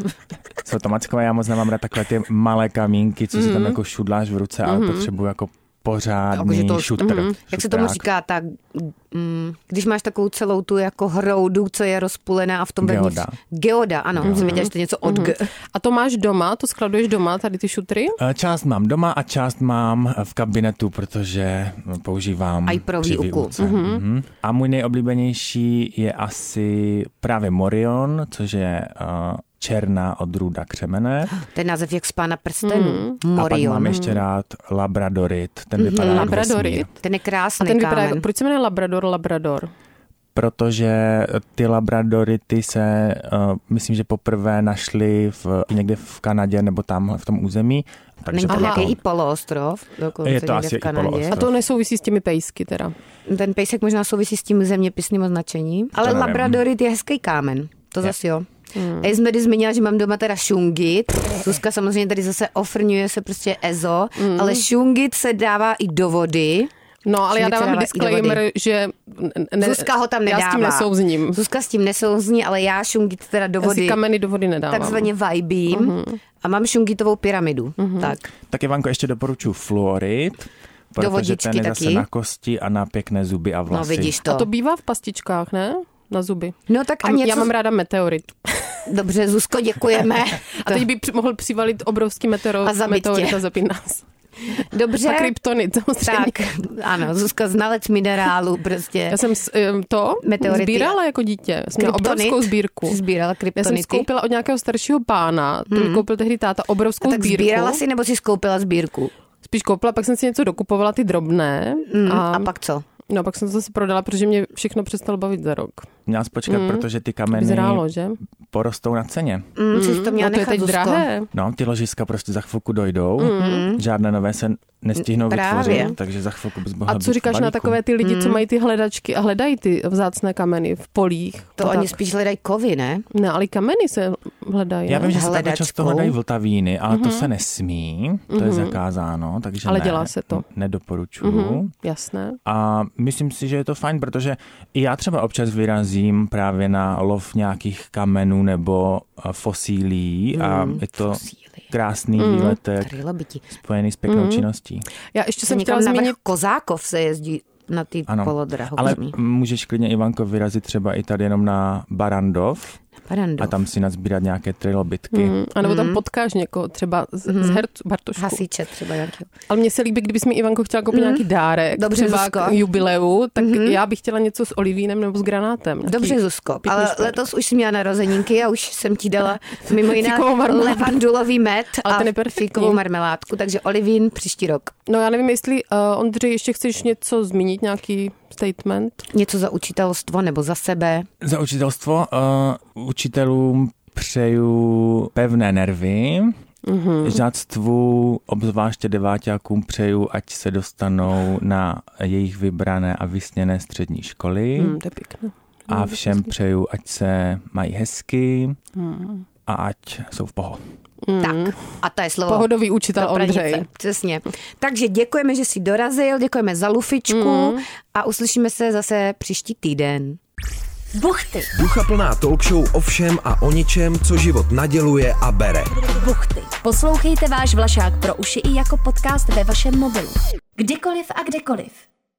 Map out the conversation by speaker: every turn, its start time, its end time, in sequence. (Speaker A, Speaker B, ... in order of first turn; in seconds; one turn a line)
Speaker A: 0.6-8.1
Speaker B: 3.3-3.8
Speaker B: 4.6-5.1
Speaker C: 6.3-15.5
Speaker B: 7.0-7.3
Speaker A: 12.8-13.4
Speaker A: 14.2-14.6
Speaker B: 14.3-18.2
Speaker A: 18.2-31.4
Speaker C: 22.7-23.6
Speaker B: 23.6-24.0
Speaker C: 31.4-34.0
Speaker B: 32.7-33.2
Speaker A: 33.4-36.9
Speaker B: 33.9-34.2
Speaker C: 35.8-36.4
Speaker B: 36.0-36.9
Speaker C: 37.0-38.3
Speaker B: 37.6-39.7
Speaker A: 40.4-49.0
Speaker C: 48.3-51.4
Speaker B: 48.5-48.9
Speaker A: 50.2-51.5
Speaker B: 51.3-53.0
Speaker C: 53.3-66.7
Speaker A: 56.0-56.6
Speaker B: 58.8-59.1
Speaker B: 64.2-64.6
Speaker B: 67.0-71.4
Speaker C: 67.3-68.4
Speaker C: 69.6-74.0
Speaker B: 73.6-75.1
Speaker C: 74.7-78.2
Speaker B: 75.7-76.2
Speaker B: 77.8-78.1
Speaker A: 78.5-84.2
Speaker C: 81.0-82.1
Speaker C: 83.7-84.5
Speaker B: 84.3-88.9
Speaker C: 86.7-87.5
Speaker C: 88.9-90.9
Speaker B: 90.5-94.0
Speaker C: 92.6-93.4
Speaker C: 94.5-95.3
Speaker B: 95.0-96.4
Speaker C: 96.0-99.2
Speaker B: 99.1-103.0
Speaker C: 100.2-101.0
Speaker C: 101.8-104.1
Speaker B: 103.6-107.8
Speaker C: 105.7-106.0
Speaker C: 107.0-109.1
Speaker B: 109.4-112.5
Speaker C: 111.9-112.8
Speaker B: 113.1-115.9
Speaker A: 116.1-117.9
Speaker B: 116.5-118.2
Speaker A: 118.5-119.5
Speaker C: 119.6-121.1
Speaker B: 119.7-121.3
Speaker A: 121.3-127.8
Speaker B: 123.2-123.7
Speaker C: 123.3-123.8
Speaker C: 125.0-126.0
Speaker B: 125.6-125.9
Speaker B: 126.9-132.0
Speaker C: 128.0-128.4
Speaker C: 131.6-133.1
Speaker B: 133.1-135.2
Speaker A: 134.9-141.7
Speaker C: 135.1-136.2
Speaker B: 136.9-137.3
Speaker B: 138.3-138.8
Speaker B: 139.7-140.4
Speaker B: 141.2-142.4
Speaker A: 142.5-153.0
Speaker C: 150.3-151.7
Speaker B: 152.2-152.6
Speaker C: 152.8-153.5
Speaker A: 153.6-154.9
Speaker B: 154.1-154.4
Speaker B: 155.1-156.2
Speaker C: 155.5-159.2
Speaker A: 158.1-162.8
Speaker C: 163.1-163.5
Speaker A: 163.4-165.4
Speaker B: 165.1-168.4
Speaker C: 165.6-166.0
Speaker C: 167.3-167.7
Speaker C: 168.2-169.3
Speaker B: 169.5-177.2
Speaker C: 170.9-172.6
Speaker C: 173.4-173.8
Speaker C: 175.8-184.8
Speaker B: 179.8-181.0
Speaker B: 181.8-182.8
Speaker B: 184.9-189.1
Speaker C: 189.1-191.1
Speaker A: 191.2-196.4
Speaker B: 196.7-197.2
Speaker A: 197.0-204.8
Speaker B: 204.6-206.3
Speaker A: 205.7-208.6
Speaker B: 208.8-209.2
Speaker A: 209.5-210.6
Speaker B: 211.1-211.6
Speaker C: 211.2-220.2
Speaker B: 212.3-213.7
Speaker B: 217.1-217.6
Speaker D: 220.9-221.5
Speaker E: 221.5-225.7
Speaker D: 225.8-231.8